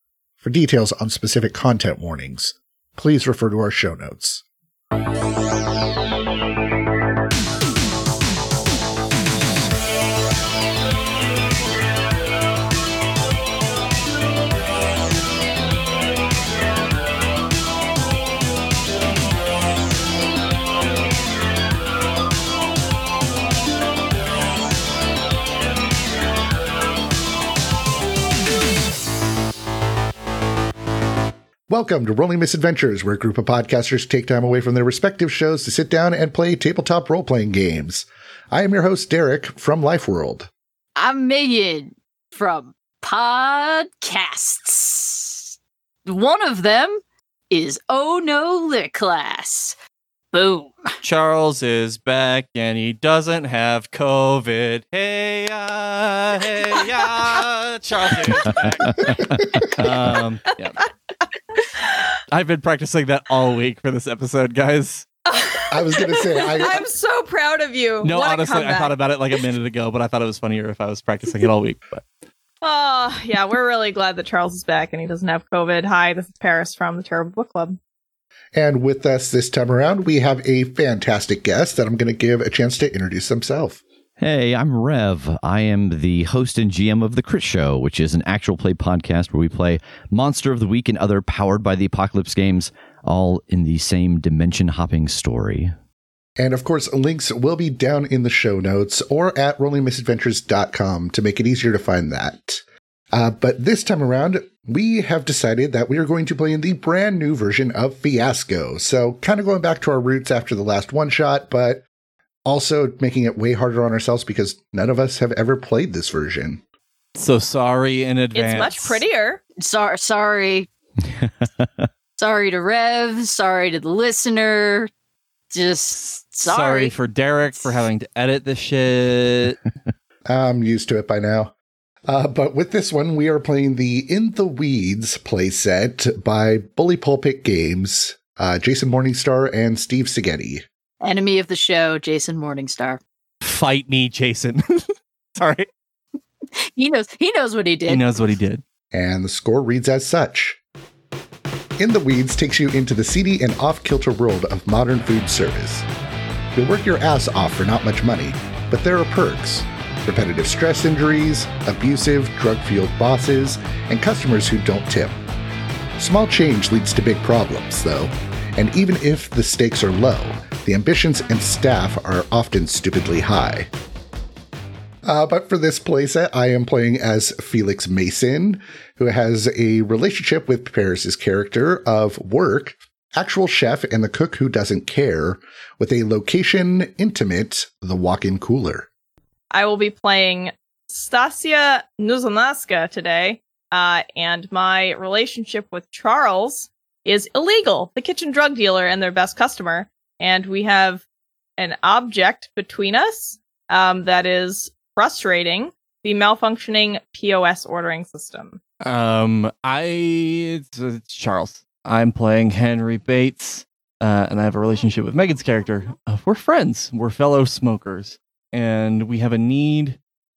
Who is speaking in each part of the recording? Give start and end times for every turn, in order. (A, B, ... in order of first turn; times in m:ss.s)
0:00.4-0:04.4 A
0:31.7-0:40.5 A
0:41.0-0:45.4 B
0:46.0-0:49.8 B
0:50.3-0:51.0 B
0:51.0-1:00.8 C
0:58.8-1:00.1 D
0:59.1-0:59.8 A
1:01.6-1:02.2 E
1:02.3-1:05.1 C
1:05.3-1:08.9 E
1:05.7-1:06.9 A
1:08.0-1:12.0 C
1:12.6-1:17.8 E
1:18.5-1:23.8 A
1:24.2-1:35.7 D
1:36.4-1:42.6 A
1:43.1-1:51.8 A
1:52.4-1:56.6 A
1:57.2-1:59.0 C
1:58.3-1:59.4 E
1:59.6-2:00.7 B
2:01.1-2:01.9 D
2:02.2-2:04.9 B
2:05.5-2:06.9 B
2:06.4-2:09.6 C
2:07.5-2:07.8 B
2:10.3-2:11.5 A
2:12.1-2:20.6 A
2:21.0-2:23.0 B
2:23.4-2:25.7 C
2:26.6-2:28.0 B
2:27.9-2:28.6 C
2:28.9-2:30.6 A
2:31.8-2:35.9 A
2:36.5-2:45.2 A
2:46.0-2:53.7 A
2:55.0-3:08.9 A
3:09.5-3:21.0 E
3:21.6-3:28.6 E
3:28.8-3:40.0 C